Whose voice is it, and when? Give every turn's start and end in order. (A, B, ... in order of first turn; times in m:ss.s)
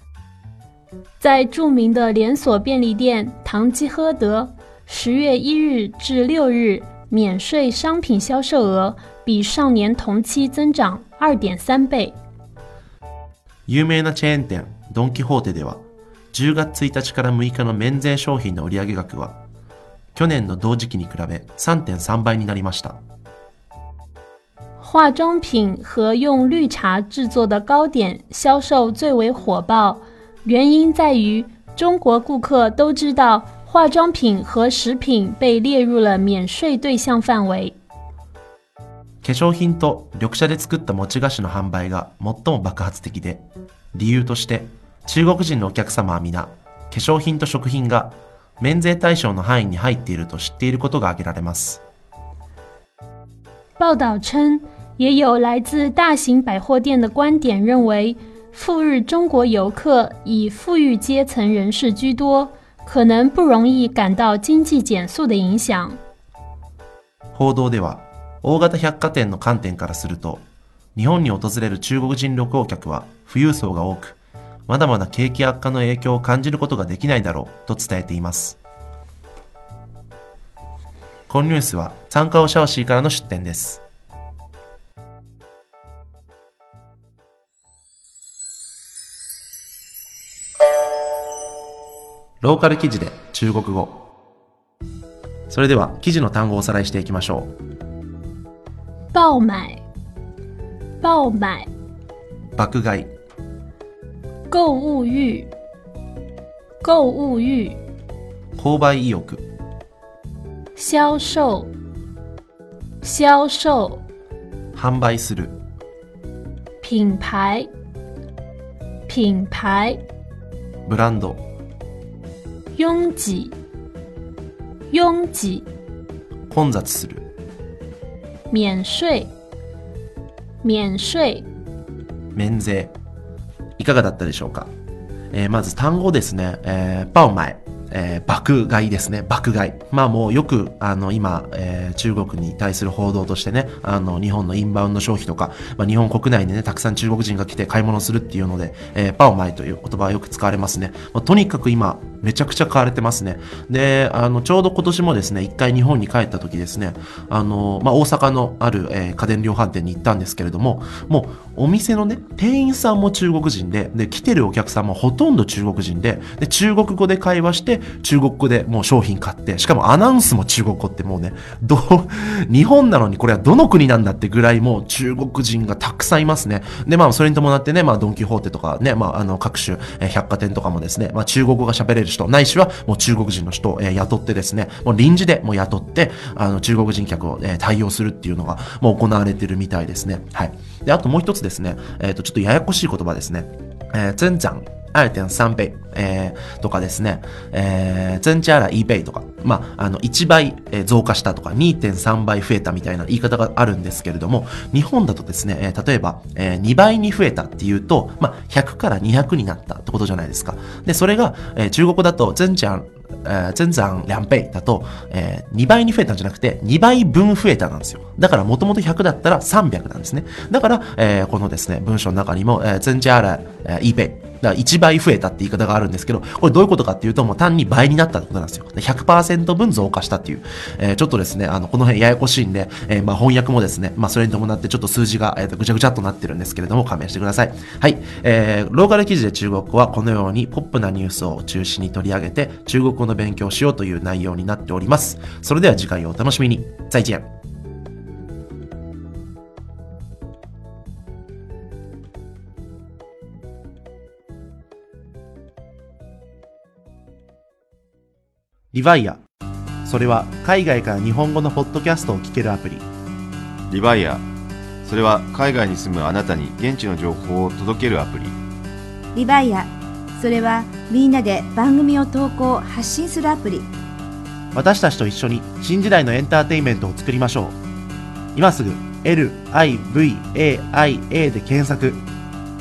0:01.2-0:12.2 A
0:13.7-0:19.4 B
0:20.2-0:23.0 B
0:24.8-0:37.8 A
0:39.2-0:51.8 B
0:53.8-1:06.0 A
1:07.3-1:18.6 B
1:21.3-1:23.8 B
1:32.4-1:34.1 B
1:35.5-1:37.5 B
1:39.1-1:39.8 A
1:41.0-1:41.7 A
1:42.6-1:43.1 B
1:44.5-1:45.5 A
1:46.8-1:47.8 A
1:48.6-1:49.4 B
1:50.8-1:51.7 A
1:53.0-1:54.0 A
1:54.7-1:55.6 B
1:56.8-1:57.7 A
1:59.1-2:00.0 A
2:00.8-2:01.4 B
2:02.8-2:03.6 A
2:04.9-2:05.7 A
2:06.5-2:07.3 B
2:08.5-2:09.3 A
2:10.6-2:11.5 A
2:12.3-2:12.9 B
2:13.8-2:14.7 B
2:15.3-4:07.3 B
4:18.7-4:19.2 B
4:19.8-4:22.9 B
4:23.7-4:24.2 C
4:24.8-4:28.4 C
4:29.2-4:33.7 D
4:34.5-4:37.6 B
4:38.4-4:42.0 B